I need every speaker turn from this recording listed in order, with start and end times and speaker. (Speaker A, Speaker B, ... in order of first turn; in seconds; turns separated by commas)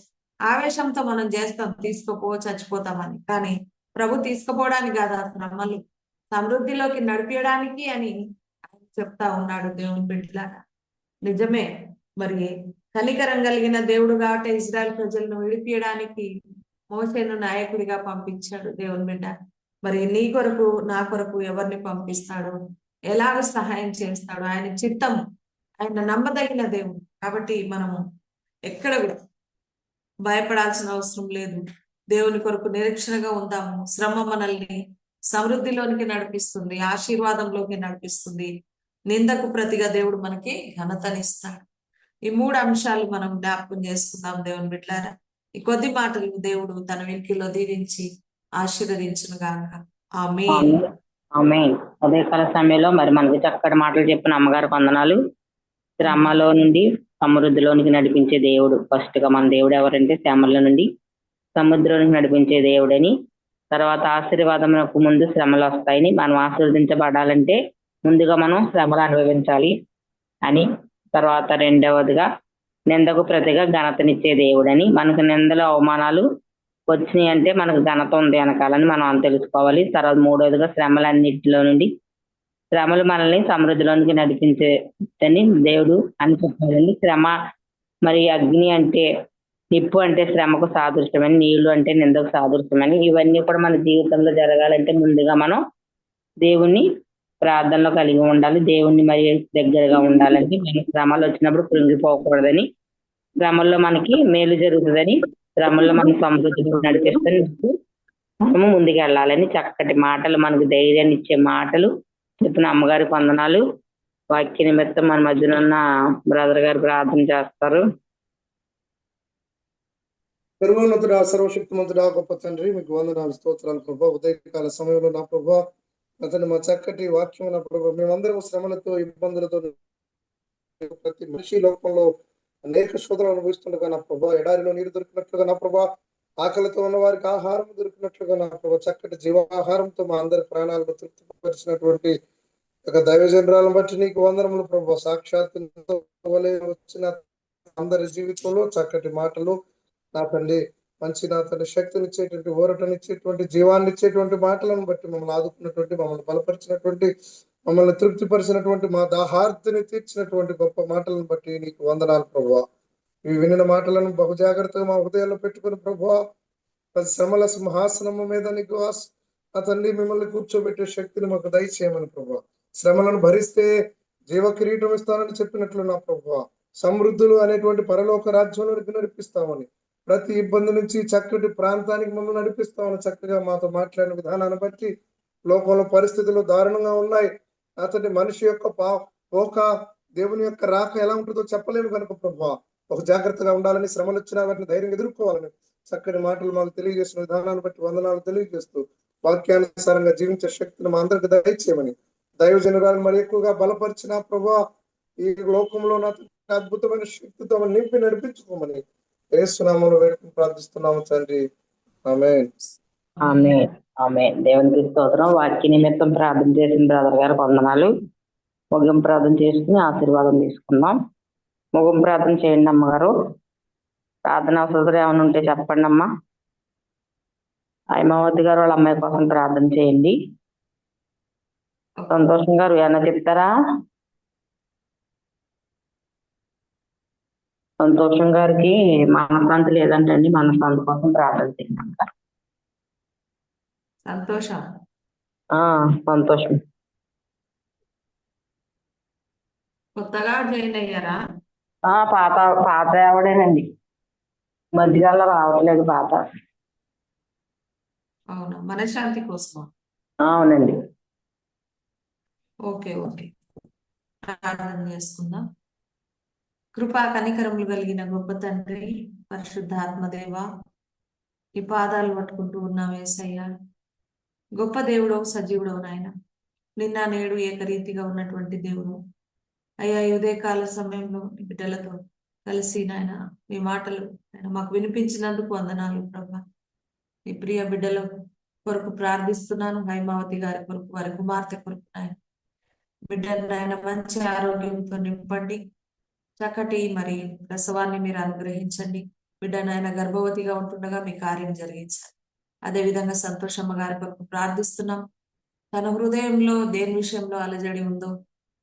Speaker A: 0.5-5.8, Speaker A: 6.3-8.1, Speaker A: 8.7-10.6, Speaker A: 11.3-11.7, Speaker A: 12.2-16.3, Speaker A: 16.9-22.5, Speaker A: 23.1-25.2, Speaker A: 25.8-28.0, Speaker A: 28.7-29.2, Speaker A: 30.2-31.6, Speaker A: 32.1-34.8, Speaker A: 35.3-38.5, Speaker A: 39.1-41.6, Speaker A: 42.3-48.1, Speaker A: 48.6-50.7, Speaker B: 50.5-50.8, Speaker B: 51.4-55.2, Speaker B: 56.0-60.9, Speaker A: 56.0-56.4, Speaker B: 61.6-63.1, Speaker B: 63.7-69.7, Speaker B: 70.5-72.2, Speaker B: 72.9-76.2, Speaker B: 76.9-81.9, Speaker B: 82.7-84.7, Speaker B: 85.2-87.3, Speaker B: 88.0-89.1, Speaker B: 89.7-95.6, Speaker B: 96.4-96.8, Speaker B: 97.4-102.6, Speaker B: 103.4-107.8, Speaker B: 108.5-111.9, Speaker B: 112.4-113.6, Speaker B: 114.3-117.8, Speaker C: 120.6-125.6, Speaker C: 126.2-129.7, Speaker C: 130.8-132.1, Speaker C: 132.6-135.9, Speaker C: 136.4-142.1, Speaker C: 142.9-147.2, Speaker C: 147.8-149.6, Speaker C: 150.1-157.1, Speaker C: 157.7-162.6, Speaker C: 163.2-166.2, Speaker C: 166.9-173.7, Speaker C: 174.3-184.9, Speaker C: 185.5-204.6, Speaker C: 205.2-211.4, Speaker C: 212.1-212.5, Speaker B: 213.2-217.9, Speaker B: 218.7-220.9, Speaker B: 221.7-223.1, Speaker B: 224.3-226.1, Speaker B: 227.9-230.1, Speaker B: 232.1-233.5, Speaker B: 237.8-242.1, Speaker A: 244.1-244.6, Speaker B: 245.5-246.6, Speaker A: 250.0-251.2, Speaker B: 251.9-253.7, Speaker B: 254.8-256.2, Speaker A: 258.4-259.6, Speaker B: 260.3-260.7, Speaker A: 262.7-263.3, Speaker A: 264.3-265.4, Speaker A: 266.8-270.4, Speaker A: 271.6-273.5, Speaker A: 274.6-276.1, Speaker A: 276.8-279.0, Speaker A: 279.8-286.4, Speaker A: 287.3-288.1, Speaker A: 288.6-292.1, Speaker A: 293.1-295.6, Speaker A: 296.4-302.1, Speaker A: 302.7-305.0, Speaker A: 305.7-308.1